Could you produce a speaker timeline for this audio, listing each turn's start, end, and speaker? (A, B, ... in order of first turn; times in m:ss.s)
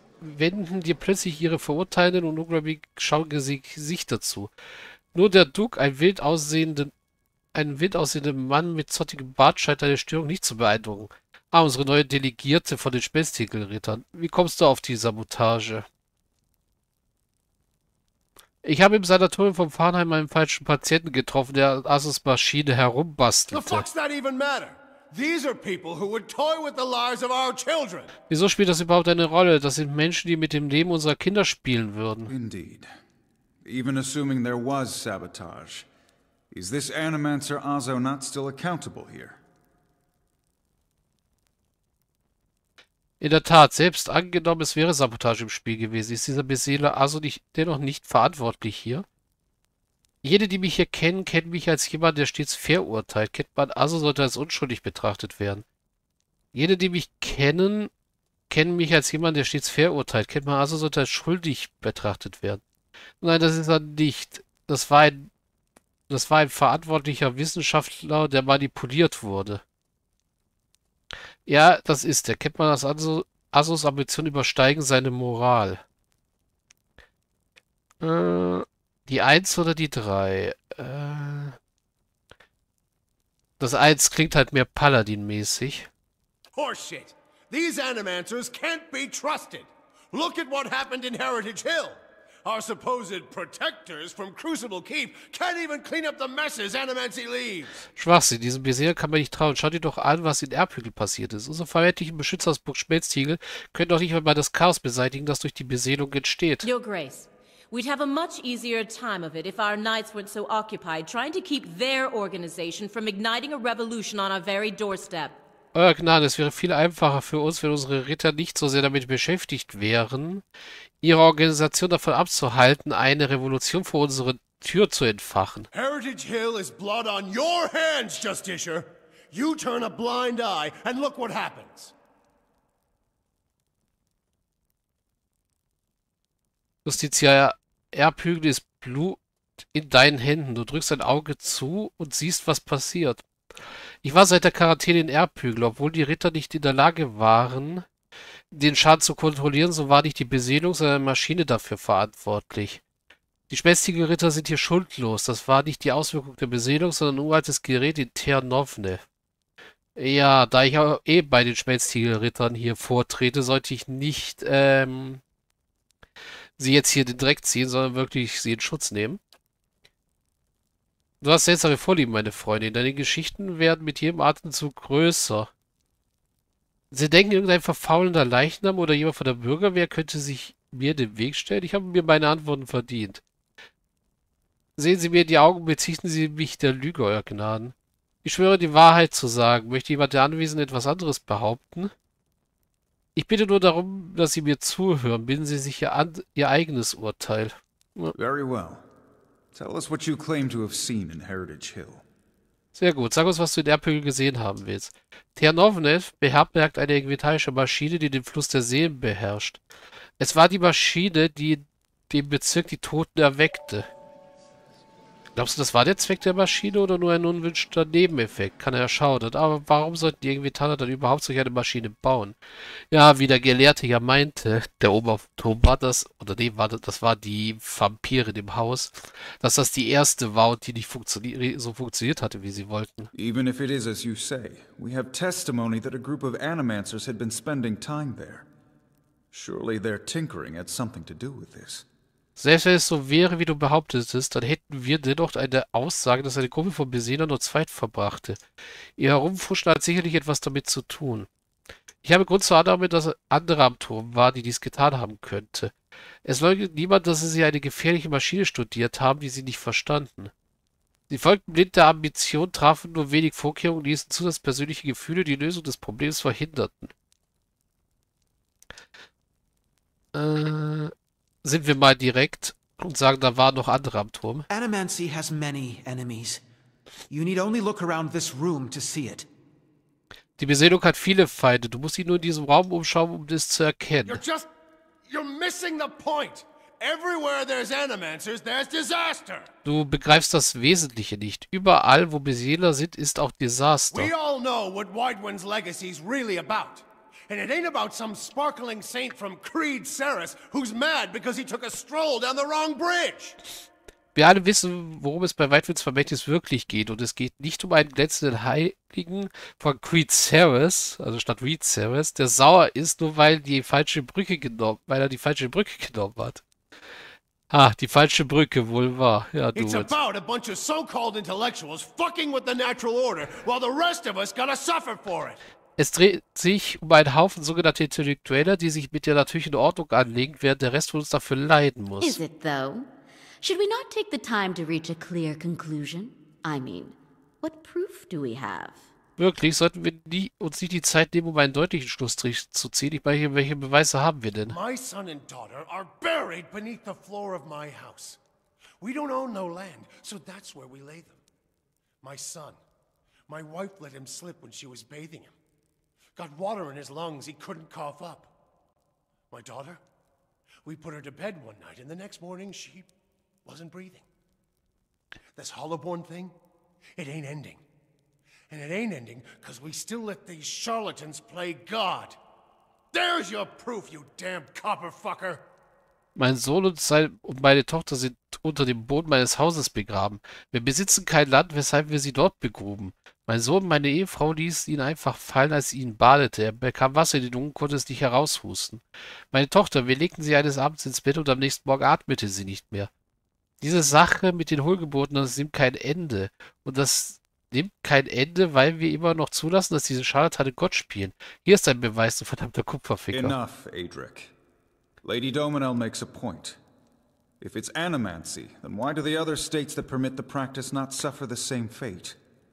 0:00.2-0:04.5 A
0:05.1-0:06.9 A
0:07.5-0:15.8 A
0:18.6-0:23.8 A
0:23.5-0:28.1 B
0:28.3-0:32.3 A
0:32.3-0:32.9 C
0:33.6-0:35.9 C
0:36.5-0:39.4 C
0:43.2-0:49.0 A
0:50.2-0:55.6 A
0:56.5-0:57.9 A
0:58.5-1:02.6 A
1:03.2-1:05.3 A
1:06.1-1:09.6 A
1:11.4-1:15.8 A
1:18.0-1:21.6 A
1:23.6-1:25.9 A
1:26.6-1:37.8 B
1:37.9-1:46.7 A
1:46.6-1:55.4 D
1:55.7-2:00.4 A
2:01.0-2:05.7 A
2:05.7-2:11.9 B
2:16.8-2:19.2 A
2:19.7-2:23.2 A
2:24.0-2:27.8 A
2:28.5-2:32.8 A
2:33.5-2:39.0 A
2:40.0-2:45.2 A
2:46.6-2:49.2 A
2:51.2-2:55.5 A
2:56.9-3:03.2 A
3:04.8-3:11.9 A
3:13.1-3:18.1 A
3:18.1-3:18.9 C
3:19.5-3:22.0 C
3:22.7-3:29.6 A
3:30.2-3:33.9 A
3:35.4-3:42.4 A
3:42.9-3:53.1 A
3:53.1-3:58.5 C
3:59.3-4:01.8 C
4:02.4-4:08.4 A
4:09.0-4:11.3 A
4:12.0-4:15.7 A
4:16.2-4:20.3 A
4:21.1-4:26.9 A
4:30.1-4:30.9 A
4:31.4-4:34.4 A
4:34.5-4:36.4 E
4:37.1-4:39.3 E
4:40.4-4:44.2 A
4:44.0-4:44.5 B
4:45.1-4:49.5 B
4:49.6-4:54.1 A
4:53.9-5:03.4 B
5:04.1-5:16.4 A
5:17.5-5:19.9 A
5:19.5-5:25.4 B
5:25.8-5:32.2 A
5:32.0-5:32.9 F
5:33.4-5:38.8 F
5:39.2-5:44.6 A
5:44.5-5:48.2 B
5:48.8-5:51.2 B
5:52.0-5:52.6 B
5:53.3-5:55.3 B
5:56.2-5:58.3 B
5:59.3-5:59.8 B
6:00.6-6:02.9 B
6:03.4-6:04.0 B
6:05.4-6:06.3 B
6:07.0-6:07.6 B
6:08.5-6:12.2 B
6:12.9-6:15.4 B
6:16.2-6:32.9 A
6:33.6-6:43.4 A
6:43.1-6:44.3 C
6:45.0-6:46.6 C
6:47.4-6:52.2 C